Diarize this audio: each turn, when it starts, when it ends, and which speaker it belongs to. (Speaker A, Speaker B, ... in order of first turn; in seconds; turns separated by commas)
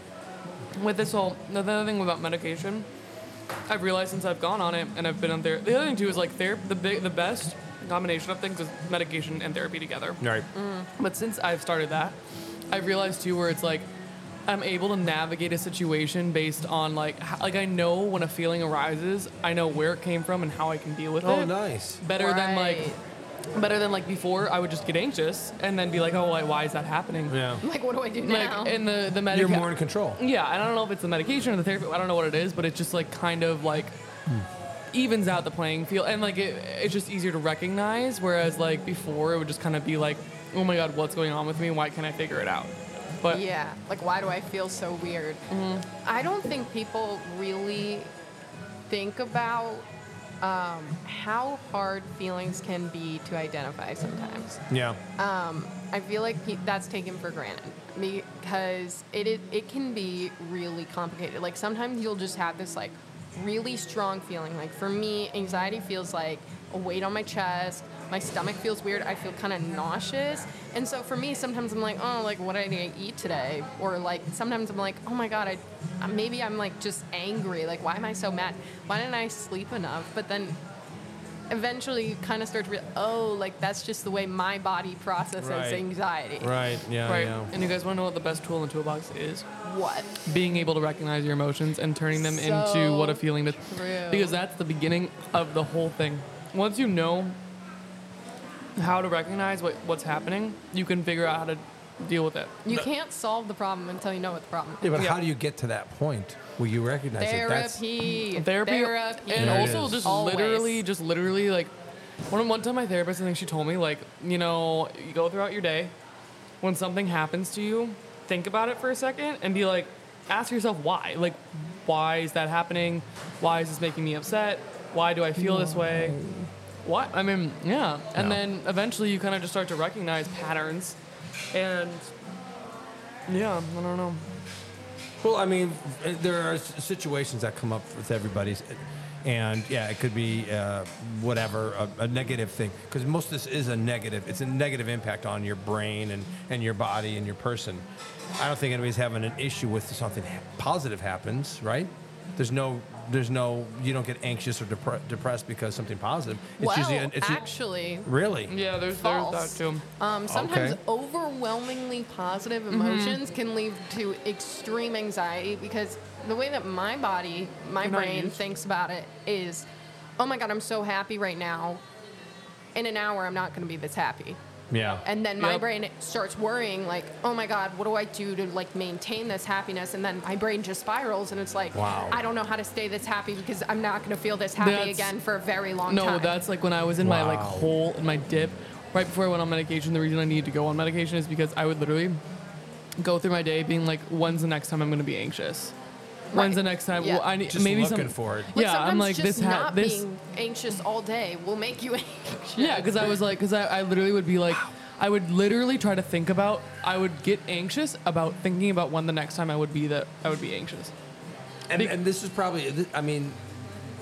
Speaker A: 0.7-2.9, Speaker A: 3.7-10.2, Speaker B: 10.2-10.5, Speaker C: 10.5-10.9, Speaker A: 11.0-12.2, Speaker A: 12.7-13.9, Speaker A: 14.5-22.9, Speaker B: 21.2-22.0, Speaker C: 22.1-23.0, Speaker A: 23.5-27.4, Speaker B: 27.3-27.6, Speaker C: 27.6-28.8, Speaker A: 28.2-34.0, Speaker B: 29.3-30.2, Speaker A: 34.9-43.4, Speaker C: 43.3-48.1, Speaker A: 45.5-45.9, Speaker C: 48.9-49.9, Speaker C: 50.4-54.6, Speaker B: 54.7-55.0, Speaker C: 55.2-80.6, Speaker C: 81.5-86.5, Speaker B: 85.4-85.8, Speaker B: 86.4-87.5, Speaker A: 87.0-89.5, Speaker C: 89.6-90.1, Speaker A: 90.2-97.4, Speaker C: 92.1-94.4, Speaker A: 98.8-102.6, Speaker C: 102.6-105.0, Speaker B: 104.8-107.8, Speaker C: 107.2-110.8, Speaker A: 108.2-111.7, Speaker B: 109.3-110.1, Speaker A: 112.3-115.9, Speaker A: 116.6-126.2, Speaker B: 125.4-126.2, Speaker A: 126.8-131.0, Speaker A: 131.5-132.1, Speaker A: 133.3-134.2, Speaker B: 135.2-147.8, Speaker B: 148.4-157.5, Speaker C: 156.6-158.1, Speaker B: 158.0-158.5, Speaker A: 158.5-159.8, Speaker C: 158.9-169.7, Speaker B: 160.3-160.8, Speaker A: 162.7-163.2, Speaker A: 167.8-168.4, Speaker C: 170.2-171.8, Speaker C: 172.7-174.4, Speaker B: 174.7-175.0, Speaker C: 175.0-186.4, Speaker A: 175.4-175.6, Speaker B: 181.7-182.2, Speaker A: 184.6-185.1, Speaker A: 185.9-192.2, Speaker B: 187.0-187.8, Speaker A: 193.0-195.7, Speaker C: 196.3-197.3, Speaker A: 196.3-200.0, Speaker B: 197.5-198.5, Speaker C: 198.5-203.2, Speaker A: 202.6-210.9, Speaker B: 211.7-213.7